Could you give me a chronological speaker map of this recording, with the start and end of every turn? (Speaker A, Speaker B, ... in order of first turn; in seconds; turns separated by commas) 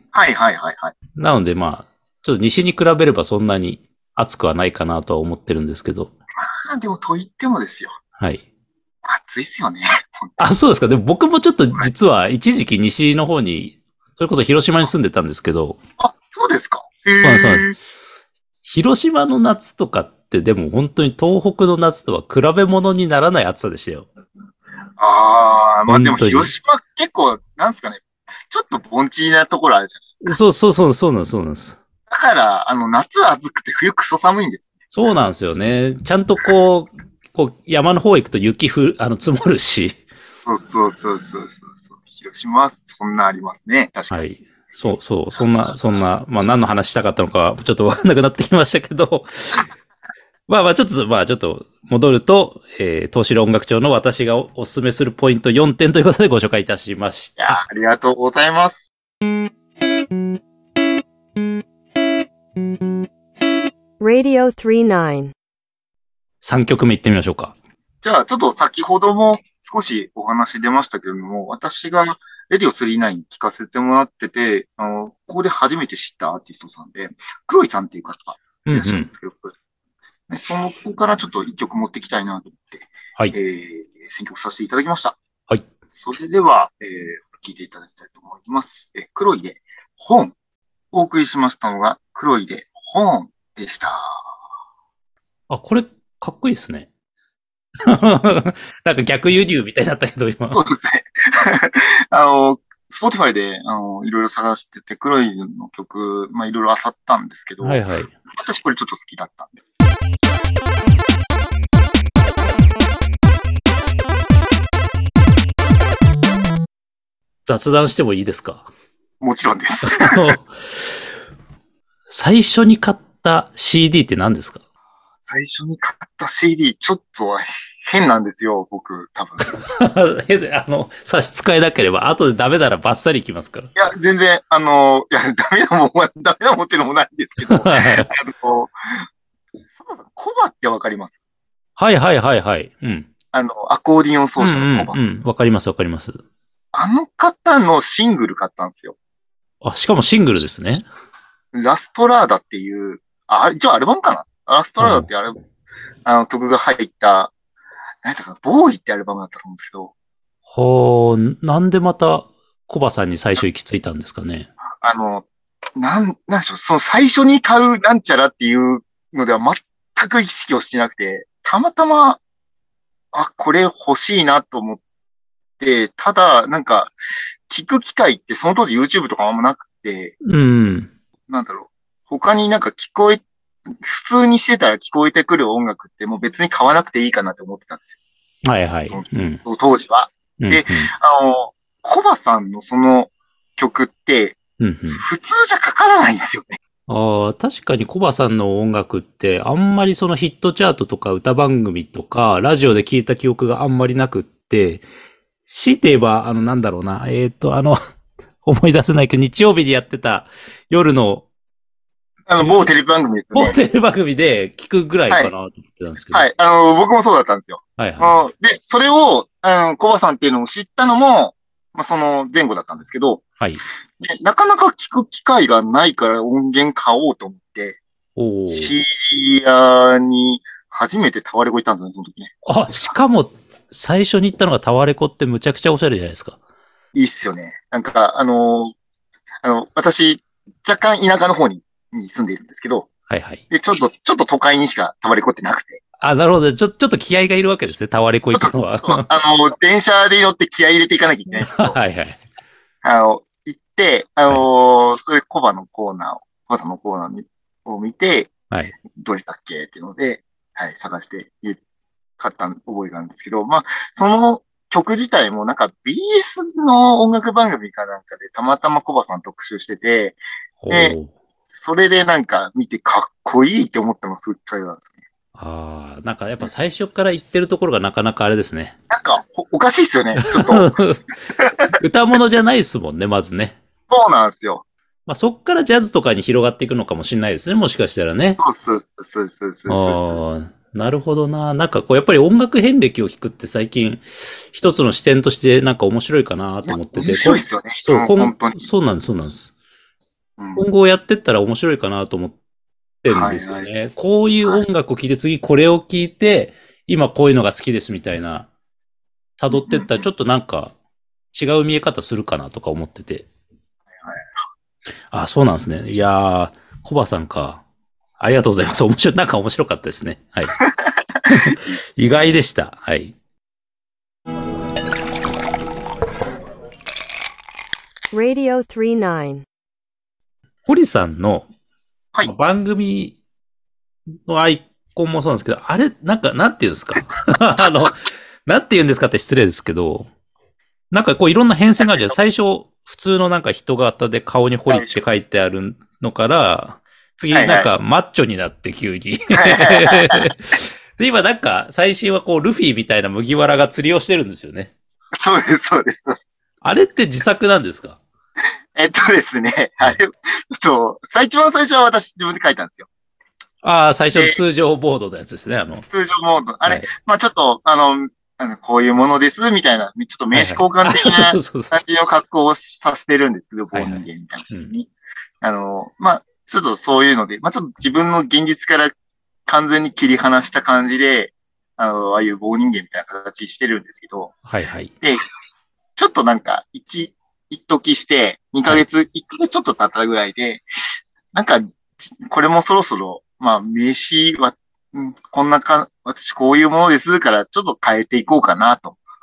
Speaker A: 0.1-0.9, Speaker B: 1.2-6.1, Speaker A: 6.4-7.9, Speaker A: 9.0-10.5, Speaker B: 10.4-15.8, Speaker A: 16.0-17.7, Speaker B: 17.2-17.7, Speaker B: 18.6-24.1, Speaker A: 25.0-30.4, Speaker B: 25.9-26.5, Speaker B: 30.2-31.8, Speaker A: 32.1-34.7, Speaker B: 34.9-40.0, Speaker A: 40.5-44.2, Speaker B: 44.1-49.6, Speaker B: 50.5-57.6, Speaker A: 57.4-58.9, Speaker C: 64.0-65.3, Speaker B: 66.4-67.5, Speaker A: 68.0-79.5, Speaker B: 78.7-79.1, Speaker A: 80.3-85.2, Speaker A: 85.9-90.3, Speaker A: 90.9-94.3, Speaker B: 95.5-96.9, Speaker B: 97.8-100.6, Speaker A: 100.5-109.5, Speaker B: 107.6-108.1, Speaker B: 117.5-118.7, Speaker A: 119.2-120.3, Speaker B: 119.8-121.0, Speaker B: 122.1-124.6, Speaker A: 125.2-129.6, Speaker B: 129.7-133.7, Speaker A: 133.8-139.0, Speaker B: 137.4-138.1, Speaker A: 139.8-141.2, Speaker B: 141.8-143.1, Speaker A: 143.3-145.0, Speaker B: 144.4-146.2, Speaker A: 146.7-148.9, Speaker B: 149.6-150.8, Speaker A: 151.5-155.3, Speaker B: 154.8-155.1, Speaker A: 156.0-157.3, Speaker A: 158.0-159.9, Speaker B: 160.5-164.5, Speaker A: 164.8-172.2, Speaker A: 173.1-174.8, Speaker A: 175.6-176.9, Speaker A: 177.5-180.1, Speaker B: 180.2-180.9, Speaker A: 181.3-183.2, Speaker A: 183.7-188.0, Speaker B: 188.4-189.4, Speaker A: 188.9-196.6, Speaker B: 190.4-190.9, Speaker B: 194.6-195.0, Speaker B: 196.9-204.8, Speaker B: 205.5-207.8, Speaker B: 208.4-211.2, Speaker A: 212.3-213.6, Speaker B: 212.3-212.7, Speaker B: 213.3-216.2, Speaker A: 216.1-223.2, Speaker B: 217.8-218.2, Speaker A: 224.0-227.8, Speaker B: 228.2-228.7, Speaker A: 228.5-232.9, Speaker B: 232.4-236.4, Speaker A: 236.9-238.7, Speaker A: 239.4-242.9, Speaker B: 243.1-243.4, Speaker A: 243.5-245.8, Speaker B: 246.0-249.1, Speaker A: 248.3-251.8, Speaker B: 251.4-252.2, Speaker A: 252.8-258.3, Speaker A: 258.9-261.6, Speaker A: 262.2-270.2, Speaker B: 270.6-271.1, Speaker A: 270.7-270.9, Speaker A: 271.6-275.0, Speaker B: 275.4-278.8, Speaker A: 278.9-280.7, Speaker B: 280.2-281.0, Speaker A: 281.3-281.8, Speaker B: 281.8-283.6, Speaker A: 283.9-284.6, Speaker B: 285.1-288.4, Speaker A: 288.4-290.2, Speaker B: 289.7-299.5, Speaker A: 296.7-298.7, Speaker A: 300.4-300.6, Speaker B: 300.6-302.4, Speaker B: 303.0-308.5, Speaker A: 303.1-303.7, Speaker B: 309.4-310.7, Speaker A: 309.5-310.0, Speaker B: 311.3-313.3, Speaker A: 314.0-314.2, Speaker B: 315.1-317.6, Speaker B: 318.2-320.6, Speaker A: 321.2-321.6, Speaker B: 321.3-323.1, Speaker C: 328.1-329.4, Speaker B: 330.6-331.4, Speaker B: 332.2-333.1, Speaker B: 334.2-340.1, Speaker B: 340.9-354.7, Speaker A: 344.7-345.0, Speaker A: 347.3-347.7, Speaker A: 349.3-350.3, Speaker A: 355.2-356.2, Speaker B: 356.6-358.0, Speaker A: 358.8-362.9, Speaker B: 363.6-365.9, Speaker A: 365.9-374.9, Speaker B: 370.3-371.7, Speaker B: 373.7-374.7, Speaker A: 375.4-378.9, Speaker A: 379.5-384.3, Speaker B: 384.5-384.9, Speaker A: 386.0-390.6, Speaker A: 391.3-391.7, Speaker A: 392.2-399.0